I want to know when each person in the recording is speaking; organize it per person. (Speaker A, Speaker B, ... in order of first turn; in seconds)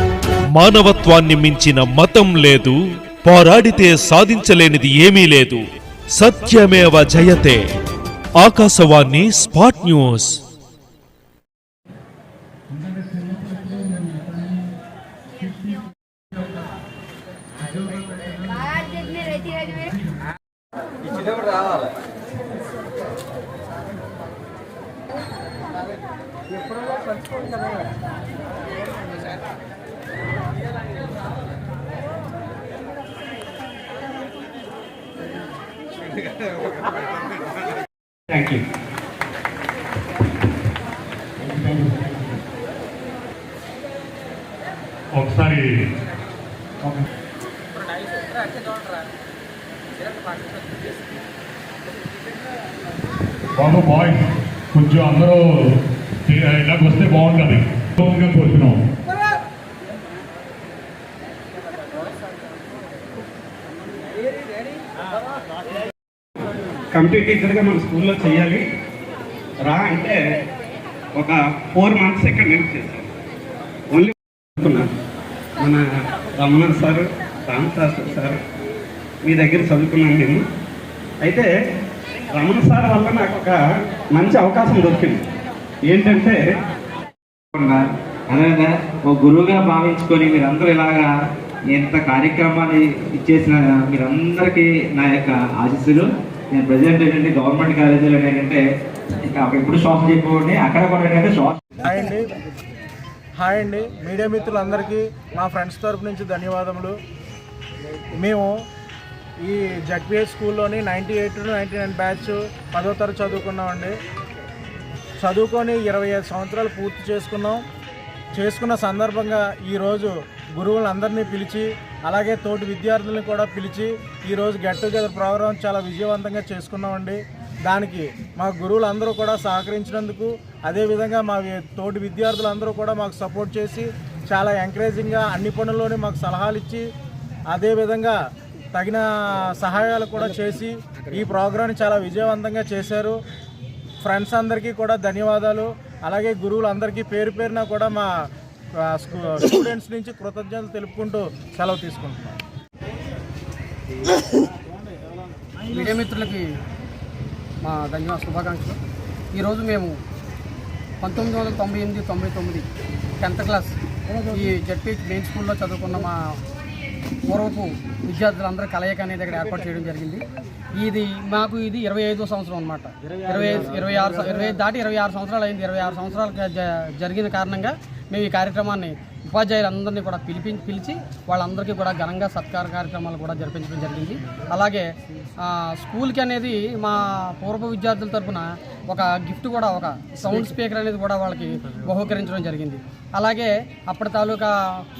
Speaker A: 0.5-5.6, 6.2-7.6, 8.4-10.3
Speaker B: 38.3-38.6, 66.9-68.6, 69.7-70.2, 71.1-73.1, 73.9-74.9, 75.6-78.4, 79.2-80.4, 81.2-81.5, 82.3-85.2, 85.9-86.4
Speaker C: 41.4-42.3, 45.1-45.7, 53.6-55.5, 56.2-58.8
Speaker D: 87.5-91.1, 91.7-98.6, 99.3-101.6
Speaker E: 101.8-102.2, 103.4-106.9, 108.2-108.5, 109.4-113.9, 115.2-117.6, 118.4-136.8, 137.5-138.2, 138.7-143.2, 144.0-148.1, 148.9-152.4, 173.2-174.0
Speaker F: 155.7-156.5, 157.6-158.8, 159.3-160.0, 161.0-162.7, 163.2-163.7, 164.3-166.2, 167.3-170.2, 170.8-184.9, 185.4-194.5